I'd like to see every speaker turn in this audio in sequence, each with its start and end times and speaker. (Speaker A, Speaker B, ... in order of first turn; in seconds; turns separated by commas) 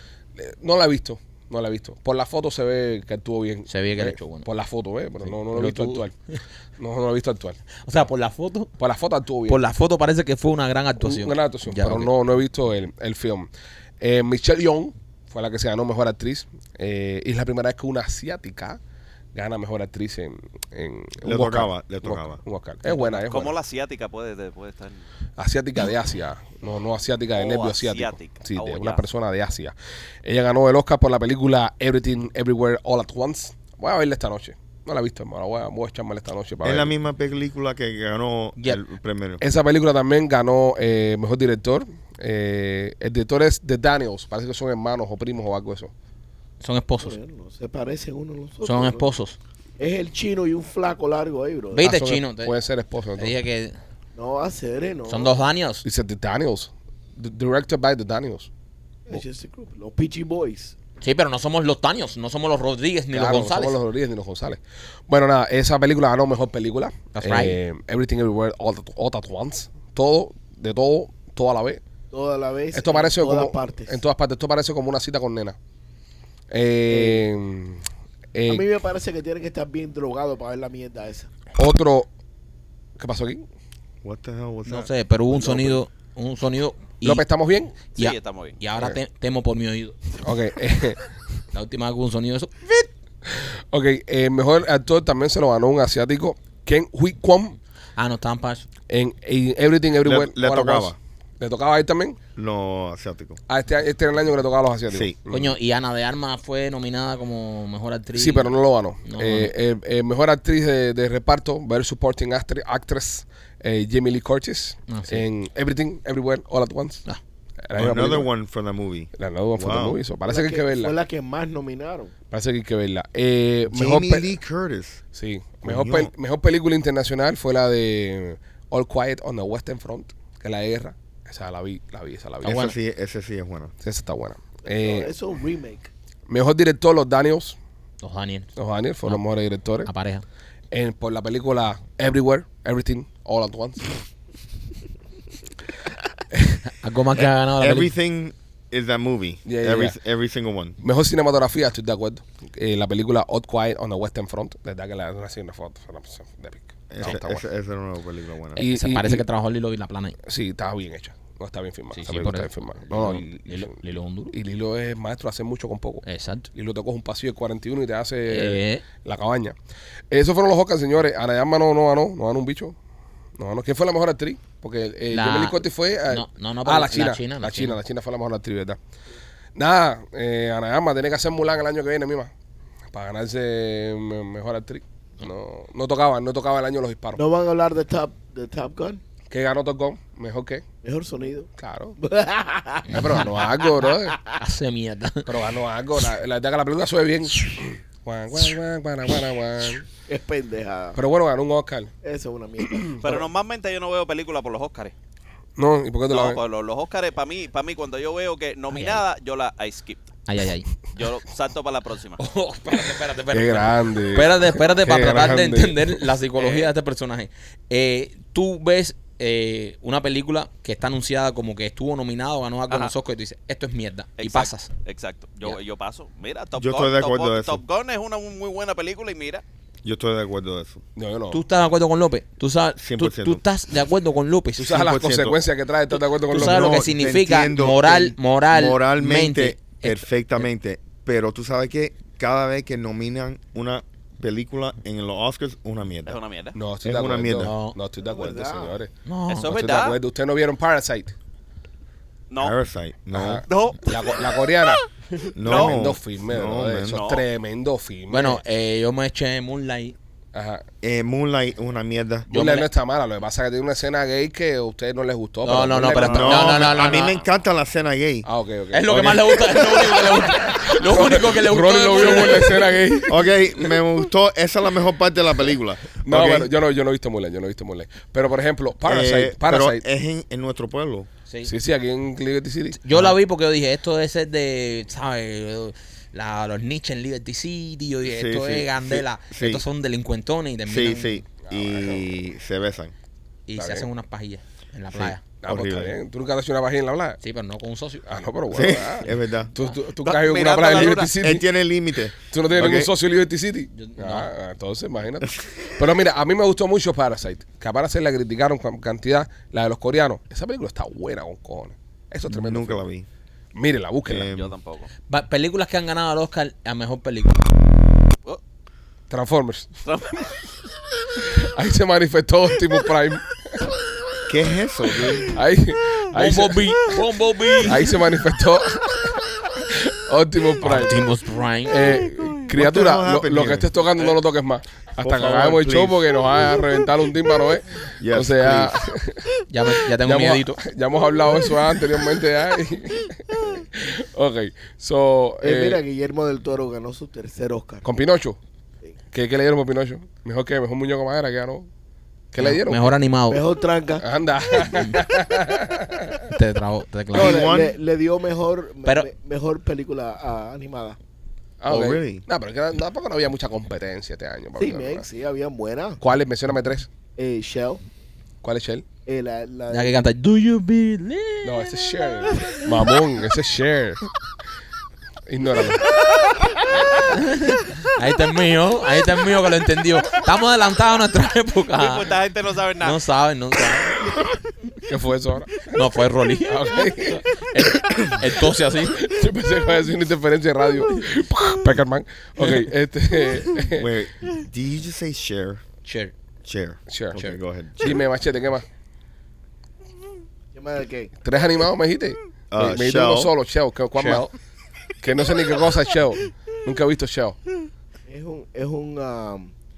Speaker A: 0.4-6.2, Speaker B: 3.7-4.5, Speaker B: 5.2-6.0, Speaker A: 6.8-7.6, Speaker B: 7.8-8.7, Speaker A: 8.8-9.6, Speaker B: 9.5-12.1, Speaker A: 11.0-18.8, Speaker A: 19.3-23.6, Speaker C: 21.2-22.4, Speaker D: 23.0-25.0, Speaker A: 25.4-36.9, Speaker D: 27.3-29.1, Speaker C: 36.6-39.4, Speaker A: 39.4-45.9, Speaker B: 46.6-47.2, Speaker E: 47.0-49.1, Speaker B: 48.6-49.4, Speaker E: 49.8-51.9, Speaker B: 51.7-52.5, Speaker A: 51.8-53.3, Speaker B: 53.2-53.8, Speaker E: 54.1-55.4, Speaker B: 55.1-55.8, Speaker A: 55.8-58.5, Speaker E: 59.1-60.8, Speaker B: 61.0-63.8, Speaker A: 63.1-71.8, Speaker B: 67.1-67.6, Speaker E: 72.1-74.0, Speaker A: 72.7-75.6, Speaker A: 76.5-78.7, Speaker E: 76.9-77.2, Speaker E: 78.5-81.3, Speaker A: 81.5-82.1, Speaker A: 83.0-83.4, Speaker C: 84.0-84.9, Speaker B: 84.7-87.2, Speaker A: 87.0-87.8, Speaker B: 87.9-90.0, Speaker D: 88.0-88.6, Speaker A: 90.2-91.0, Speaker B: 91.5-92.9, Speaker A: 93.3-97.6, Speaker B: 98.0-98.7, Speaker A: 98.9-102.2, Speaker C: 100.0-101.0, Speaker C: 102.4-103.4, Speaker A: 103.5-105.6, Speaker C: 104.9-105.2, Speaker B: 105.3-108.5, Speaker A: 108.2-117.0, Speaker B: 109.1-109.5, Speaker B: 114.9-115.2, Speaker A: 117.7-118.3, Speaker C: 117.8-120.0, Speaker A: 119.2-121.0, Speaker E: 120.3-122.1, Speaker A: 122.3-124.4, Speaker C: 123.7-125.0, Speaker A: 125.1-132.8, Speaker C: 125.6-126.1, Speaker C: 132.4-133.7, Speaker A: 133.8-135.1, Speaker E: 134.8-135.9, Speaker A: 136.3-137.6, Speaker B: 138.0-138.5, Speaker A: 138.6-139.9, Speaker B: 139.9-140.2, Speaker A: 140.7-143.9, Speaker A: 146.3-146.6, Speaker B: 146.7-147.9, Speaker C: 147.6-150.8, Speaker A: 149.5-150.0, Speaker A: 150.8-157.4, Speaker C: 156.9-158.6, Speaker A: 158.6-159.2, Speaker B: 158.6-160.2, Speaker A: 160.2-163.8, Speaker B: 161.9-164.3, Speaker A: 164.3-169.6, Speaker B: 166.1-166.5, Speaker B: 168.3-168.8, Speaker A: 170.1-172.8, Speaker A: 173.4-178.8, Speaker B: 175.1-177.8, Speaker A: 179.6-182.3, Speaker A: 182.9-187.2, Speaker E: 187.2-189.0, Speaker A: 189.3-190.7, Speaker E: 190.8-191.5, Speaker A: 191.6-192.0, Speaker E: 192.0-193.2, Speaker A: 192.9-194.2, Speaker B: 192.9-193.3, Speaker B: 194.3-195.3, Speaker A: 195.3-199.9, Speaker E: 200.1-201.0, Speaker A: 201.0-201.9, Speaker E: 202.0-203.0, Speaker A: 202.7-203.2, Speaker D: 203.0-204.9, Speaker A: 205.6-206.4, Speaker D: 206.1-210.0, Speaker B: 208.7-209.0, Speaker B: 210.3-210.7, Speaker D: 210.9-212.2, Speaker B: 212.2-224.7, Speaker A: 213.3-216.0, Speaker D: 216.4-216.7, Speaker D: 222.7-222.9, Speaker D: 224.2-229.4, Speaker C: 226.6-227.6, Speaker C: 229.8-230.8, Speaker A: 231.0-231.4, Speaker B: 231.3-235.0, Speaker C: 232.8-233.4, Speaker A: 234.6-236.8, Speaker C: 234.7-235.4, Speaker B: 236.3-240.5, Speaker C: 236.3-246.2, Speaker D: 246.1-246.6, Speaker A: 246.6-248.9, Speaker C: 246.8-247.5, Speaker B: 247.4-247.8, Speaker E: 248.0-248.8, Speaker B: 249.1-249.6, Speaker D: 249.3-250.0, Speaker A: 249.4-251.1, Speaker D: 252.3-252.6, Speaker C: 252.4-253.4, Speaker A: 253.1-254.8, Speaker D: 253.5-254.9, Speaker C: 255.3-257.1, Speaker D: 255.4-255.8, Speaker A: 255.4-258.4, Speaker D: 256.9-257.2, Speaker B: 258.1-260.0, Speaker A: 260.3-260.6, Speaker C: 260.8-262.3, Speaker A: 262.3-266.7, Speaker B: 262.3-262.7, Speaker B: 265.4-267.2, Speaker D: 265.9-267.3, Speaker C: 266.0-268.3, Speaker A: 268.2-273.3, Speaker B: 268.7-272.8, Speaker C: 268.9-269.6, Speaker C: 273.1-276.5, Speaker A: 276.1-279.8, Speaker C: 278.9-281.1, Speaker A: 281.4-282.8, Speaker B: 282.8-291.2, Speaker C: 288.0-289.6, Speaker C: 290.6-292.9, Speaker A: 291.4-292.1, Speaker B: 293.5-295.2, Speaker A: 293.6-293.9, Speaker C: 294.9-296.0, Speaker A: 295.4-297.2, Speaker B: 297.2-298.1, Speaker A: 298.1-301.5, Speaker C: 298.5-299.5, Speaker D: 300.0-301.1, Speaker C: 300.8-302.9, Speaker A: 302.3-312.9, Speaker B: 303.7-304.3, Speaker C: 305.2-305.6, Speaker C: 312.3-313.1, Speaker A: 313.6-314.3, Speaker C: 314.1-314.6, Speaker D: 314.3-314.9, Speaker B: 315.1-317.5, Speaker A: 319.1-319.7, Speaker D: 319.9-320.4, Speaker A: 321.2-323.4, Speaker C: 324.3-325.3, Speaker A: 325.2-326.9, Speaker B: 326.1-327.8, Speaker A: 327.6-331.1, Speaker B: 330.6-332.1, Speaker A: 331.6-339.3, Speaker C: 332.4-334.2, Speaker C: 335.0-336.3, Speaker C: 338.0-338.9, Speaker B: 339.5-340.6, Speaker A: 340.0-345.8, Speaker E: 345.4-347.9, Speaker A: 347.8-348.4, Speaker A: 349.1-351.7, Speaker A: 352.3-352.9, Speaker B: 352.4-353.4, Speaker E: 353.3-354.1, Speaker A: 354.0-356.3, Speaker B: 354.6-355.0, Speaker B: 356.3-357.5, Speaker C: 357.1-357.8, Speaker E: 357.1-361.0, Speaker A: 361.6-365.1, Speaker C: 361.7-362.2, Speaker E: 364.6-366.0, Speaker A: 366.0-366.9, Speaker E: 367.2-367.8, Speaker A: 368.4-368.9, Speaker E: 369.1-370.0, Speaker B: 369.7-371.7, Speaker A: 371.4-374.0, Speaker E: 372.4-372.6, Speaker A: 375.3-375.9, Speaker B: 376.9-382.1, Speaker D: 381.8-383.0, Speaker B: 382.8-384.2, Speaker A: 384.9-385.8, Speaker B: 385.7-389.1, Speaker A: 386.4-387.3, Speaker A: 389.0-393.9, Speaker C: 393.8-395.6, Speaker B: 395.9-396.1, Speaker C: 396.4-398.0, Speaker A: 396.9-398.7, Speaker E: 400.5-401.1, Speaker A: 401.2-404.2, Speaker C: 402.5-403.3, Speaker B: 403.9-404.3, Speaker A: 405.0-407.4, Speaker E: 408.1-409.5